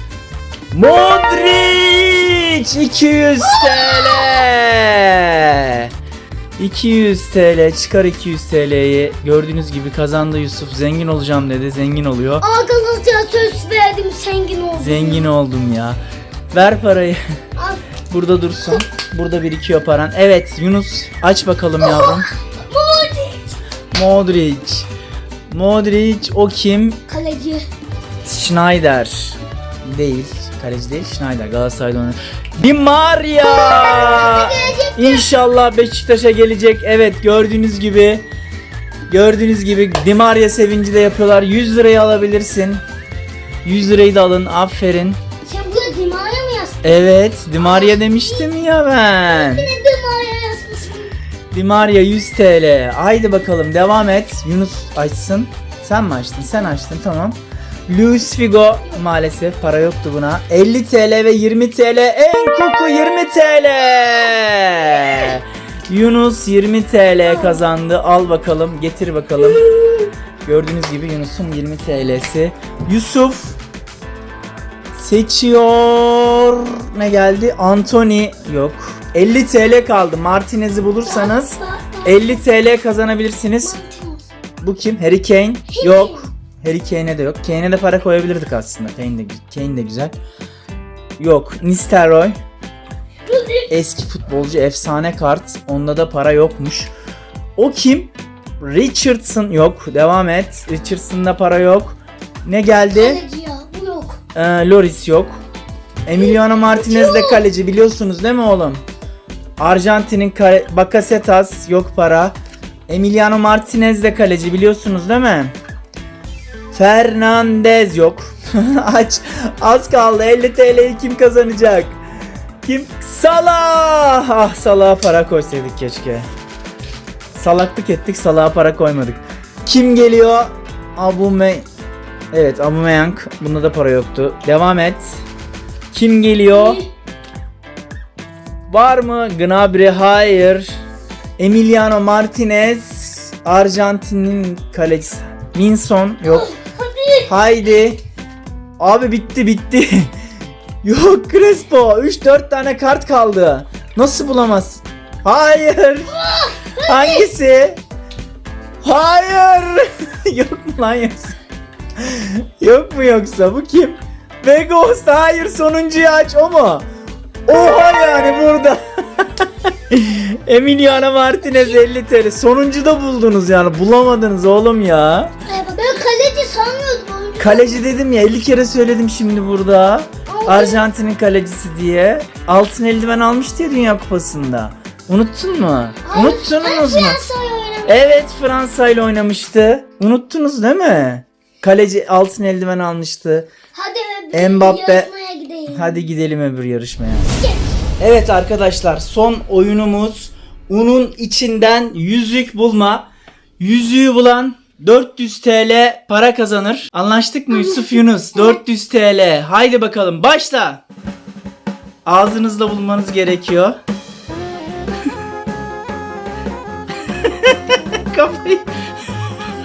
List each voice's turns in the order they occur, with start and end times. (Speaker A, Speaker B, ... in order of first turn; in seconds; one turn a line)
Speaker A: 0.7-5.9
Speaker B: 3.4-4.5
Speaker A: 6.6-12.4
Speaker B: 12.4-15.3
Speaker A: 14.8-16.0
Speaker A: 16.5-17.2
Speaker B: 17.6-17.8
Speaker A: 18.1-22.3
Speaker B: 21.8-23.5
Speaker A: 23.9-24.9
Speaker A: 25.5-27.0
Speaker B: 27.1-27.6
Speaker A: 28.2-38.2
Speaker B: 33.4-35.3
Speaker A: 39.1-42.8
Speaker A: 43.6-45.2
Speaker B: 45.4-46.8
Speaker A: 46.8-49.7
Speaker B: 47.6-48.5
Speaker B: 49.3-51.1
Speaker A: 51.5-69.7
Speaker B: 69.5-70.1
Speaker A: 70.4-73.6
Speaker A: 75.0-83.8
Speaker B: 81.0-82.4
Speaker B: 83.6-84.3
Speaker A: 84.6-90.2
Speaker B: 85.7-86.2
Speaker A: 91.2-92.3
Speaker B: 93.3-93.7
Speaker A: 93.7-96.9
Speaker A: 97.6-103.2
Speaker B: 102.9-104.2
Speaker A: 104.3-105.4
Speaker A: 106.0-108.8
Speaker B: 106.2-107.4
Speaker A: 109.6-112.3
Speaker A: 112.9-115.5
Speaker A: 116.7-122.0
Speaker A: 122.6-126.3
Speaker A: 127.3-131.6
Speaker A: 132.3-135.2
Speaker A: 135.9-136.8
Speaker B: 136.5-136.9
Speaker A: 138.7-140.8
Speaker A: 141.4-146.5
Speaker B: 146.2-147.3
Speaker A: 147.3-148.0
Speaker A: 148.8-150.1
Speaker A: 150.8-156.1
Speaker B: 156.1-157.2
Speaker A: 156.8-157.8
Speaker A: 158.8-161.4
Speaker A: 162.0-166.8
Speaker A: 167.4-175.3
Speaker B: 175.5-177.8
Speaker A: 177.4-187.2
Speaker B: 180.3-180.8
Speaker B: 186.0-188.2
Speaker A: 187.8-193.5
Speaker B: 193.7-196.0
Speaker A: 194.3-195.1
Speaker A: 195.7-197.3
Speaker B: 197.4-197.7
Speaker A: 198.0-210.8
Speaker B: 207.5-208.6
Speaker A: 212.1-213.8
Speaker A: 217.0-218.7